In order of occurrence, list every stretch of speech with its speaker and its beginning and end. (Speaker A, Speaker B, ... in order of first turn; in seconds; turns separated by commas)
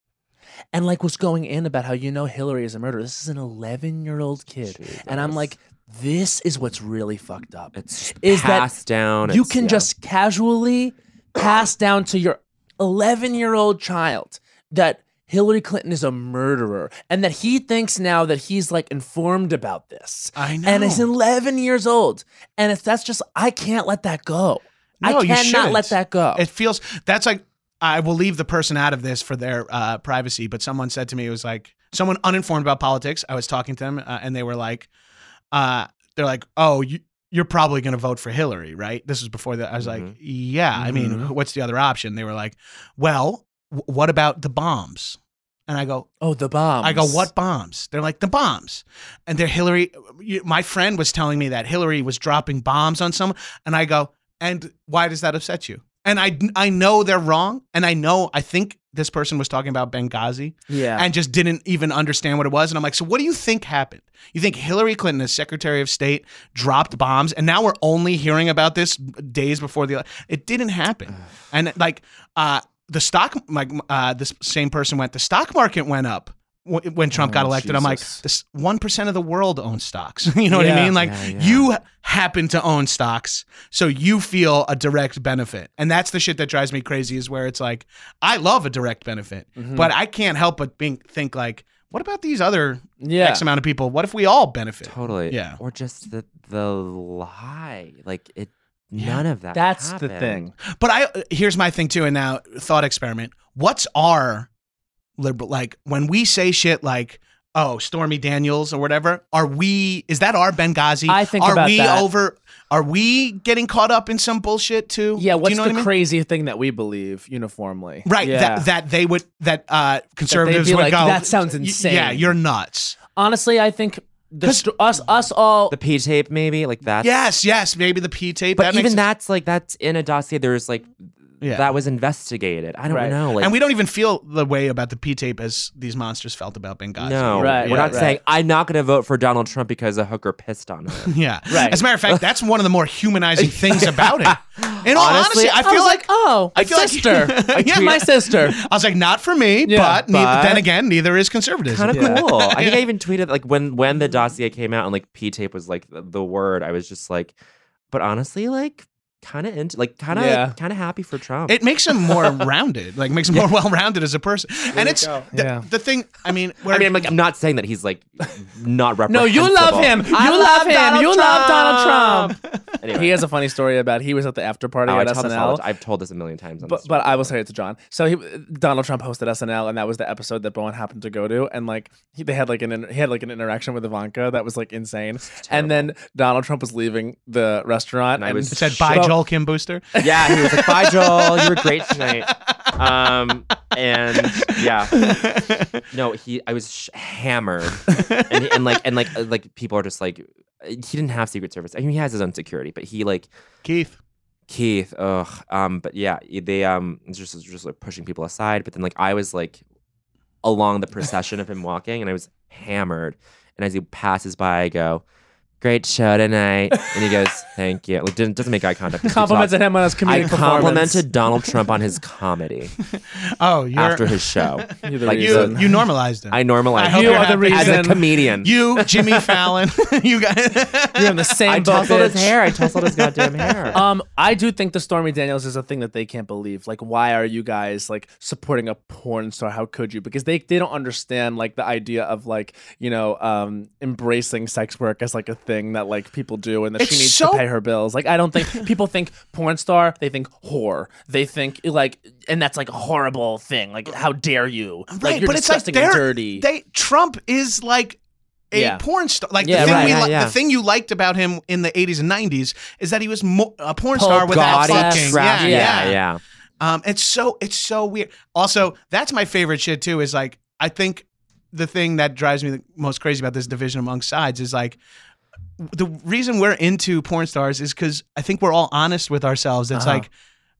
Speaker A: 0.7-8.7, Speaker B: 4.8-5.5, Speaker B: 7.8-9.9, Speaker A: 9.2-26.4, Speaker C: 20.4-21.1, Speaker C: 25.0-34.9, Speaker C: 35.5-46.1, Speaker B: 39.8-40.1, Speaker A: 40.8-41.3, Speaker A: 46.2-47.3, Speaker C: 46.8-95.6, Speaker A: 60.7-61.1, Speaker A: 77.1-78.2, Speaker A: 80.5-80.9, Speaker B: 81.0-81.7, Speaker A: 89.6-89.9, Speaker A: 93.0-93.4, Speaker B: 94.8-100.4, Speaker C: 99.0-99.2, Speaker A: 99.5-100.5, Speaker C: 100.7-104.5, Speaker C: 105.2-115.9, Speaker A: 111.1-112.1, Speaker A: 115.2-118.7, Speaker C: 118.0-123.0, Speaker A: 120.3-122.4, Speaker A: 123.2-125.8, Speaker B: 125.7-127.1, Speaker C: 127.0-129.1, Speaker B: 128.6-133.6, Speaker C: 131.4-131.7, Speaker A: 132.9-133.2, Speaker C: 133.4-138.2, Speaker B: 137.0-141.1, Speaker A: 137.3-138.2, Speaker C: 141.0-152.8, Speaker A: 141.5-141.8, Speaker B: 143.7-145.7, Speaker A: 145.6-148.6, Speaker A: 149.7-150.1, Speaker B: 150.1-150.7, Speaker B: 151.7-157.3, Speaker A: 151.9-152.2, Speaker B: 157.9-161.6, Speaker A: 160.1-160.6, Speaker C: 161.5-167.1, Speaker B: 164.8-165.2, Speaker A: 165.3-165.7, Speaker B: 166.7-173.2, Speaker A: 169.1-172.4, Speaker A: 172.9-175.6, Speaker B: 174.9-177.2, Speaker A: 176.6-189.2, Speaker B: 185.3-185.9, Speaker B: 188.2-189.2, Speaker C: 188.5-189.9, Speaker A: 190.0-191.2, Speaker B: 190.0-195.1, Speaker C: 194.2-195.8, Speaker B: 195.9-203.3, Speaker C: 197.9-198.4, Speaker C: 203.6-204.0, Speaker B: 204.5-209.6, Speaker B: 210.4-215.0, Speaker B: 215.6-222.7, Speaker A: 219.0-221.1, Speaker C: 220.2-220.8, Speaker C: 222.9-231.9, Speaker B: 223.8-229.4, Speaker A: 224.8-225.7, Speaker A: 226.9-228.0, Speaker A: 231.0-232.3, Speaker B: 231.5-233.8, Speaker C: 232.9-233.8, Speaker A: 233.7-256.4, Speaker C: 246.8-247.4, Speaker C: 254.9-258.0, Speaker C: 258.5-266.0, Speaker A: 258.5-258.8, Speaker A: 259.4-260.1, Speaker B: 259.5-260.4, Speaker A: 263.9-265.9, Speaker B: 264.1-266.2, Speaker C: 266.6-274.8, Speaker C: 275.6-280.1, Speaker A: 279.7-280.1